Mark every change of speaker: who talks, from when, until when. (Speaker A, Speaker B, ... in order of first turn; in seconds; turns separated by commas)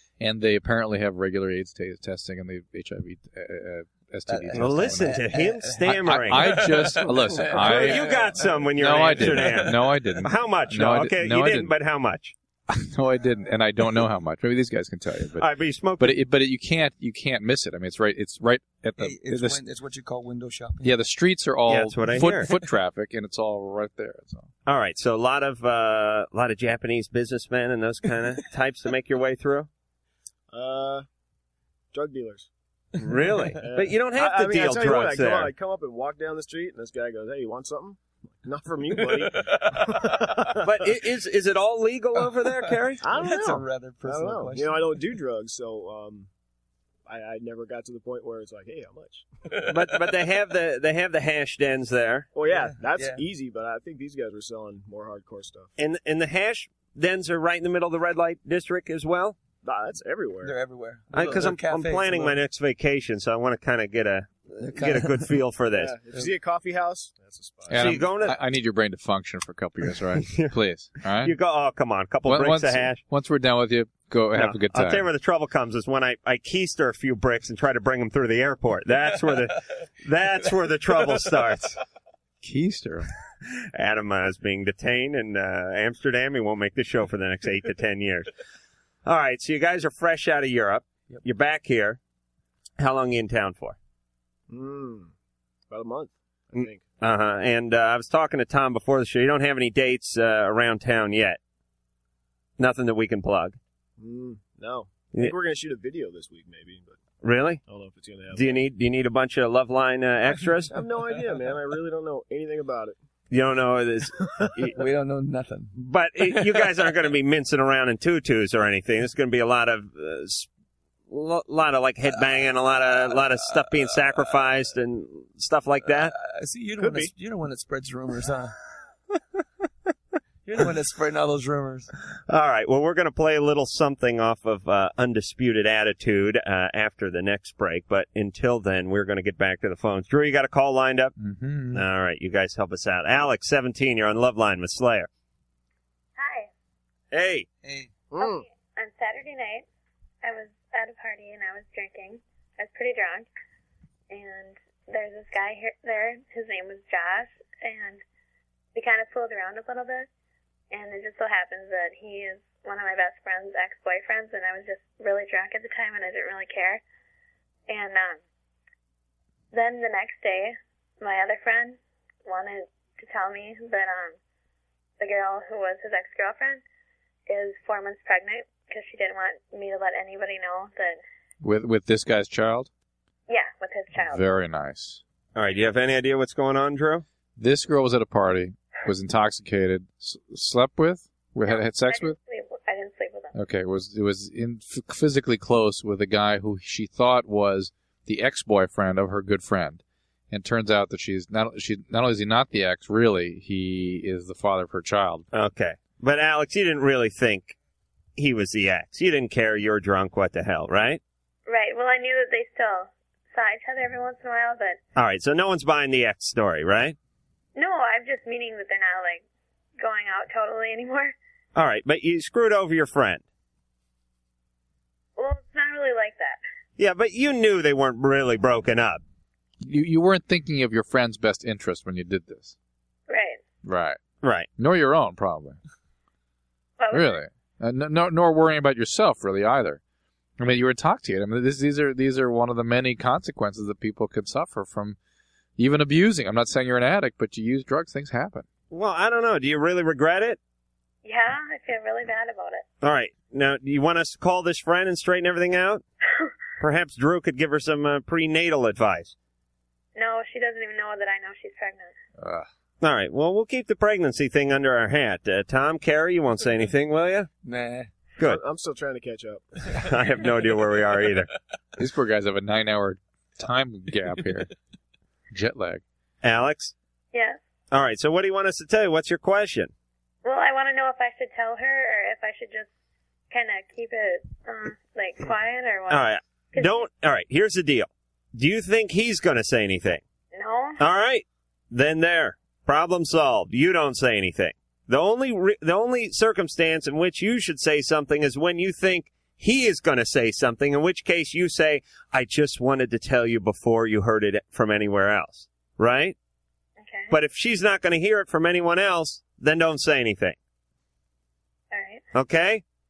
Speaker A: 0.2-11.7, Speaker B: 4.3-9.5, Speaker C: 4.5-6.7, Speaker C: 7.5-12.3, Speaker A: 12.7-15.5, Speaker C: 15.4-16.2, Speaker A: 16.0-19.6, Speaker B: 19.0-21.0, Speaker A: 20.8-24.5, Speaker C: 21.7-22.5, Speaker C: 24.6-29.7, Speaker D: 30.5-31.0, Speaker D: 31.9-32.5, Speaker C: 33.0-35.5, Speaker D: 33.6-40.7, Speaker C: 40.6-43.0, Speaker D: 43.0-46.3, Speaker B: 43.0-45.0, Speaker D: 47.0-49.2, Speaker C: 49.7-52.3, Speaker D: 52.3-55.7, Speaker B: 52.5-53.2, Speaker C: 55.8-59.4, Speaker D: 59.6-60.5, Speaker B: 60.4-62.4, Speaker C: 61.1-66.0, Speaker B: 64.6-65.3, Speaker D: 65.8-67.9, Speaker A: 67.7-71.3, Speaker C: 67.7-68.4, Speaker C: 70.2-70.5, Speaker C: 71.2-73.0, Speaker A: 72.2-75.0, Speaker C: 74.3-81.8, Speaker A: 82.4-83.1, Speaker C: 83.7-88.3, Speaker C: 89.0-92.0, Speaker C: 92.8-93.8, Speaker D: 94.5-95.1, Speaker D: 95.7-97.0, Speaker C: 96.5-101.4, Speaker C: 102.6-103.6, Speaker D: 104.0-107.0, Speaker C: 107.2-107.6, Speaker D: 107.6-108.6, Speaker C: 108.3-110.7, Speaker D: 110.7-113.0, Speaker C: 113.3-114.7, Speaker B: 114.7-116.5, Speaker C: 115.7-120.5, Speaker C: 121.1-126.1, Speaker B: 125.8-128.5, Speaker D: 126.8-127.1, Speaker B: 130.4-131.9, Speaker C: 132.3-141.1, Speaker A: 141.2-141.8, Speaker C: 141.7-145.1, Speaker E: 146.2-146.5, Speaker C: 147.1-147.5, Speaker B: 147.6-147.9, Speaker D: 148.1-148.4, Speaker E: 148.2-149.7, Speaker E: 150.2-153.3, Speaker E: 154.1-158.0, Speaker E: 158.7-160.1, Speaker E: 160.7-166.8, Speaker E: 167.7-168.2, Speaker E: 169.5-174.2, Speaker E: 175.0-176.6, Speaker E: 177.3-181.0, Speaker A: 181.4-182.7, Speaker E: 183.3-184.3, Speaker A: 183.9-185.0, Speaker C: 185.3-187.0, Speaker A: 187.4-192.2, Speaker E: 191.4-193.3, Speaker A: 193.3-205.3, Speaker C: 205.3-207.6, Speaker C: 208.2-211.0, Speaker E: 211.5-214.8, Speaker C: 214.9-216.9, Speaker E: 217.5-219.2, Speaker E: 219.8-221.1, Speaker C: 221.5-223.2, Speaker E: 225.2-226.4, Speaker C: 226.8-229.0, Speaker A: 229.6-232.5, Speaker E: 233.1-233.4, Speaker A: 233.6-234.0, Speaker C: 234.2-234.5, Speaker A: 234.6-235.6, Speaker E: 236.8-237.2, Speaker A: 236.9-239.8, Speaker A: 240.4-245.0, Speaker A: 245.6-248.5, Speaker C: 248.7-250.4, Speaker E: 251.0-252.7, Speaker C: 252.8-255.8, Speaker C: 256.6-259.1, Speaker E: 259.9-261.9, Speaker A: 262.2-262.5, Speaker C: 262.8-267.3, Speaker B: 267.4-267.9, Speaker D: 268.2-269.4, Speaker C: 269.8-271.3, Speaker A: 271.8-274.5, Speaker A: 275.3-275.8, Speaker C: 276.2-276.7, Speaker E: 277.1-277.4, Speaker C: 277.7-279.7, Speaker E: 280.2-282.7, Speaker E: 283.3-286.9, Speaker C: 285.9-290.0, Speaker E: 290.3-290.8, Speaker C: 290.8-306.1, Speaker E: 306.8-307.1, Speaker C: 307.1-310.4, Speaker E: 311.7-312.0, Speaker C: 312.1-312.6